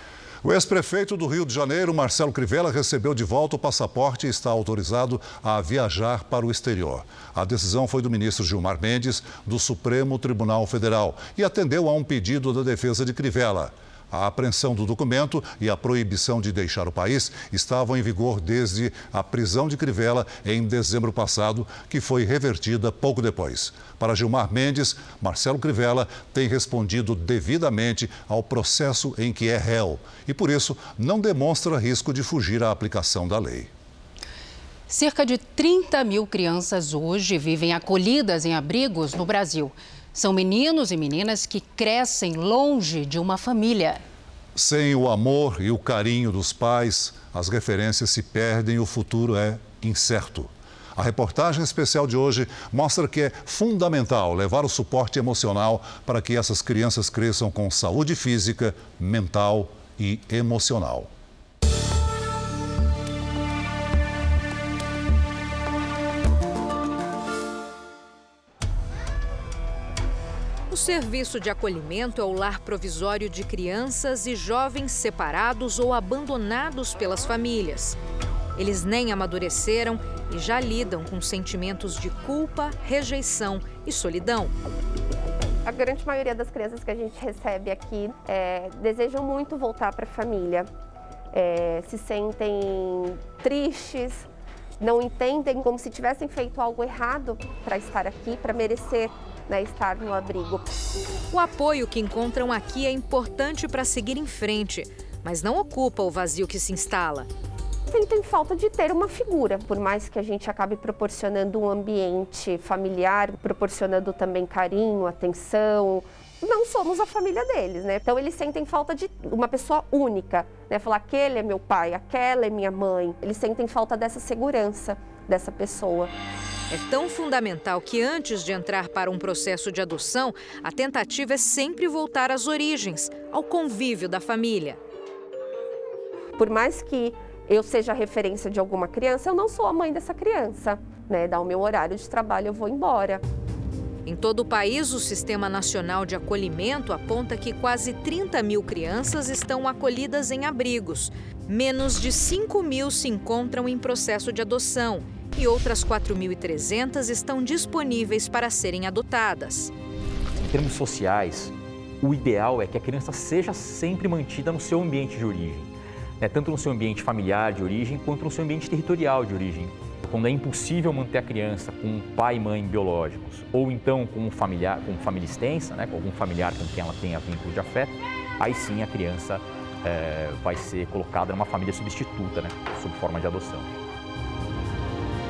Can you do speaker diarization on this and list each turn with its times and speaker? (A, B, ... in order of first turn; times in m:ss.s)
0:00.4-0:33.7 A
0:34.9-0:44.0 B
0:44.6-1:01.1 A
1:10.7-1:18.0 C
1:18.6-1:24.5 C
1:25.7-1:30.7 D
1:31.3-1:34.3 D
1:34.8-1:40.7 D
1:41.3-1:47.3 C
1:47.9-2:06.1 D
2:06.7-2:14.8 C
2:16.4-2:23.2 D
2:24.1-2:39.7 C
2:40.4-3:03.7 E